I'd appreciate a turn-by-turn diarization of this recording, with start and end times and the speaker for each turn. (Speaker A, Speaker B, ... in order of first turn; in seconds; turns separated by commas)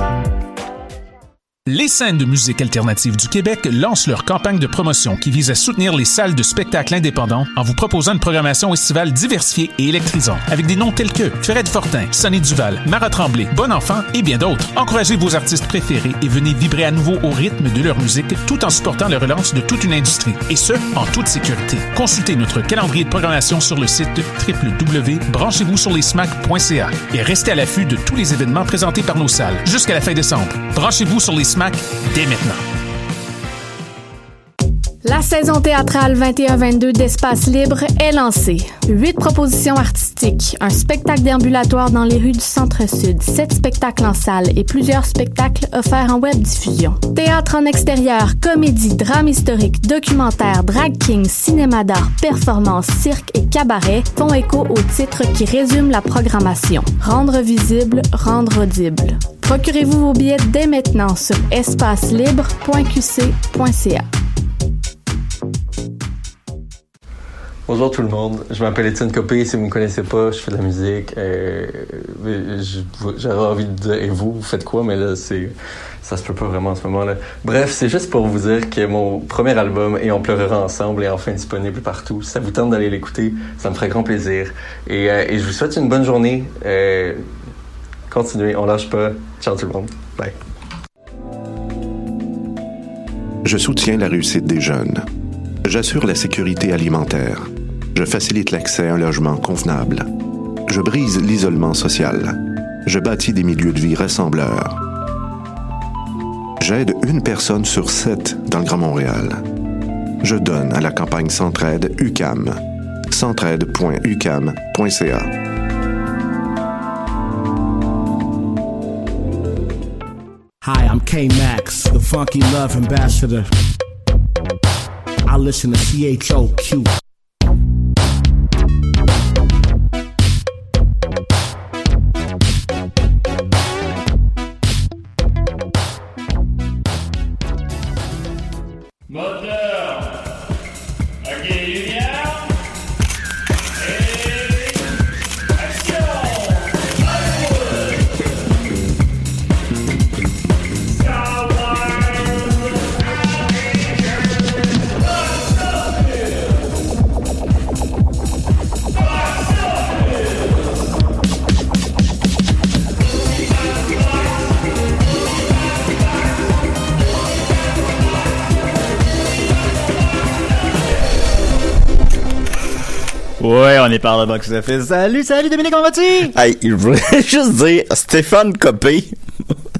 Speaker A: 1.7-32.6, Speaker B: 35.0-64.1, Speaker C: 67.7-87.2, Speaker C: 88.1-90.3, Speaker D: 93.4-95.1, Speaker D: 95.6-100.1, Speaker D: 100.7-104.8, Speaker D: 106.6-109.4, Speaker D: 110.2-115.3, Speaker E: 120.6-123.5, Speaker E: 125.3-126.9, Speaker F: 173.4-176.3, Speaker G: 176.3-179.2